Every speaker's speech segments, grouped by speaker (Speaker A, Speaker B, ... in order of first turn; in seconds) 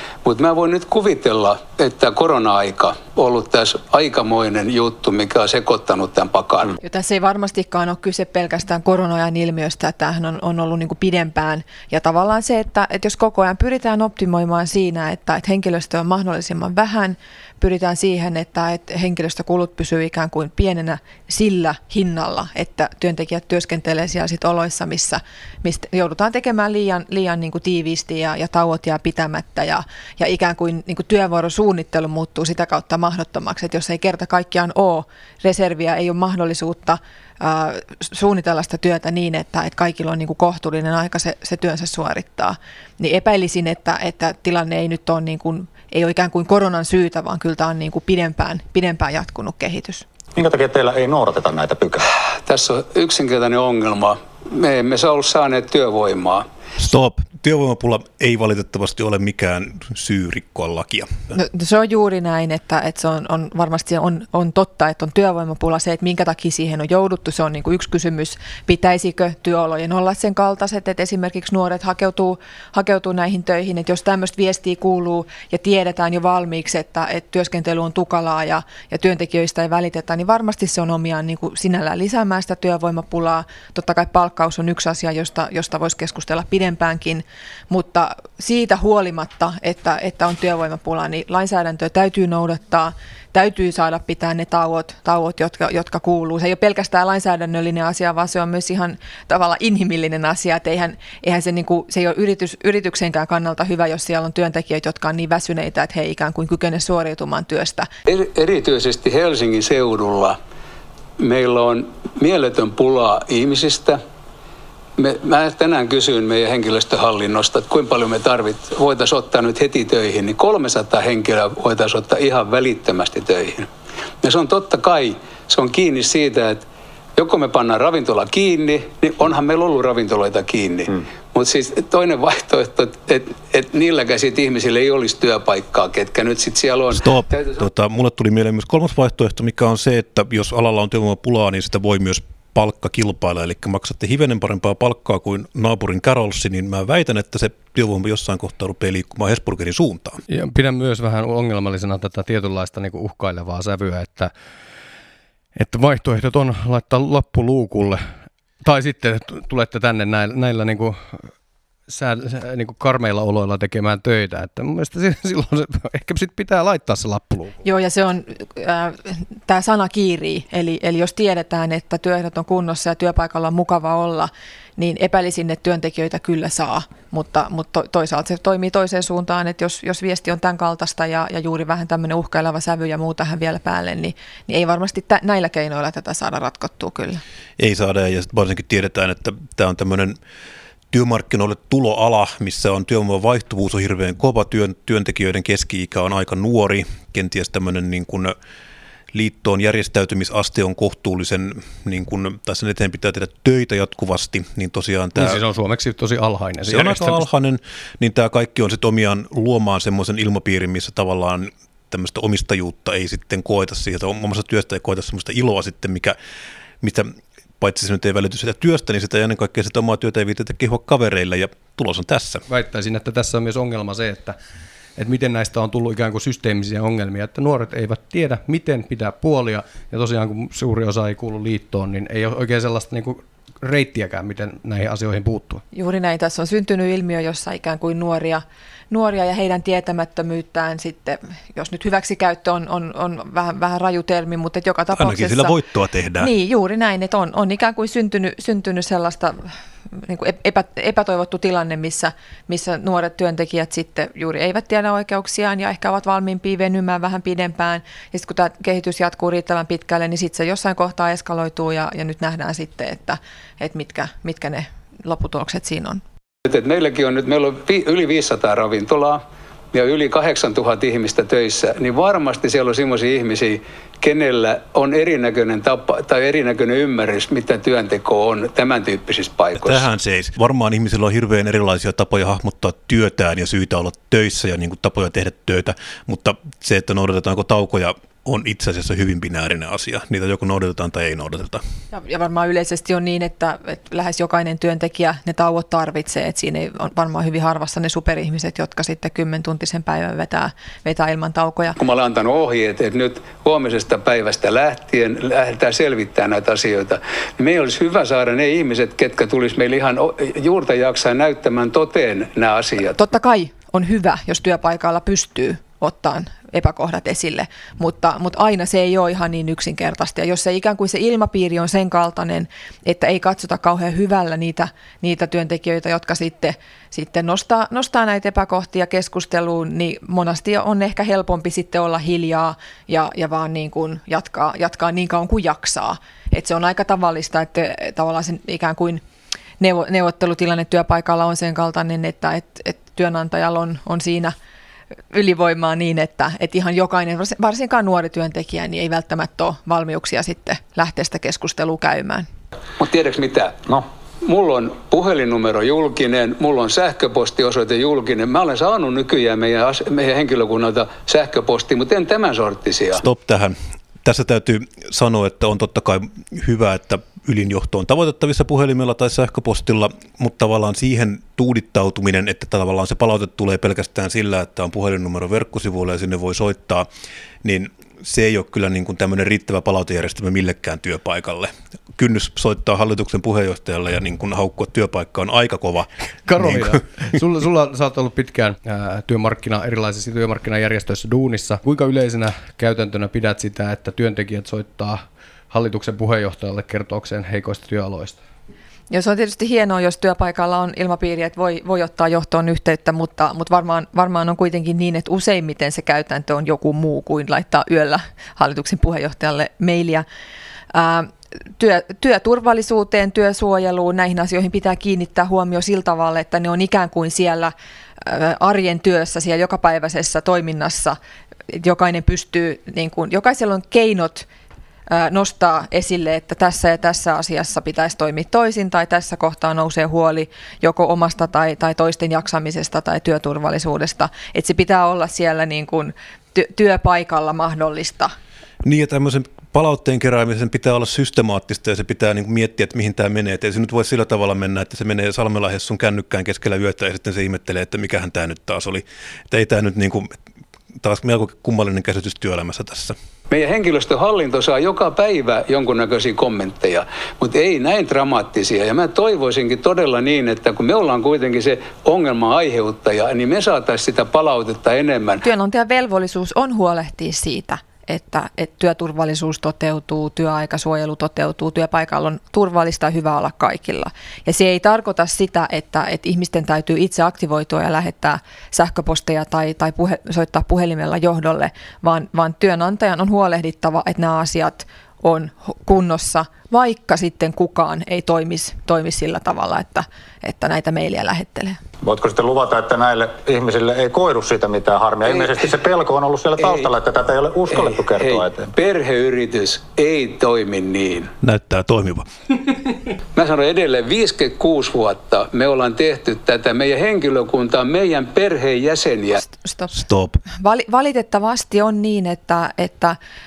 Speaker A: 0.2-6.8, 52.4-56.5, 108.1-110.4, 111.2-114.0, 115.0-123.7, 124.2-126.6, 127.2-137.6, 266.4-269.2, 269.7-279.8, 301.8-313.0, 352.8-353.7, 354.2-363.0, 453.3-465.2, 496.4-496.7, 497.5-501.1, 503.1-509.2
Speaker B: 6.8-50.0, 61.3-107.9, 167.6-187.2, 235.7-245.5, 246.2-266.0, 291.9-301.8, 312.8-339.0, 339.6-344.3, 345.1-352.3, 398.9-410.0, 410.7-421.0, 421.5-424.3, 424.9-438.1, 465.2-491.6, 509.2-509.8, 510.4-513.0
Speaker C: 50.4-52.1, 491.8-498.5
Speaker D: 56.8-61.1, 137.0-150.2, 187.6-190.2, 190.9-198.3, 199.1-205.4, 206.7-216.2, 216.8-222.4, 244.9-246.3, 279.6-291.6, 362.9-376.9, 377.4-386.8, 438.6-450.1, 450.8-452.9, 501.2-502.1, 509.7-510.2
Speaker E: 150.3-154.3, 155.5-158.0, 158.6-161.2, 161.9-167.6, 205.2-207.2, 222.5-224.4, 225.0-235.6, 386.3-398.2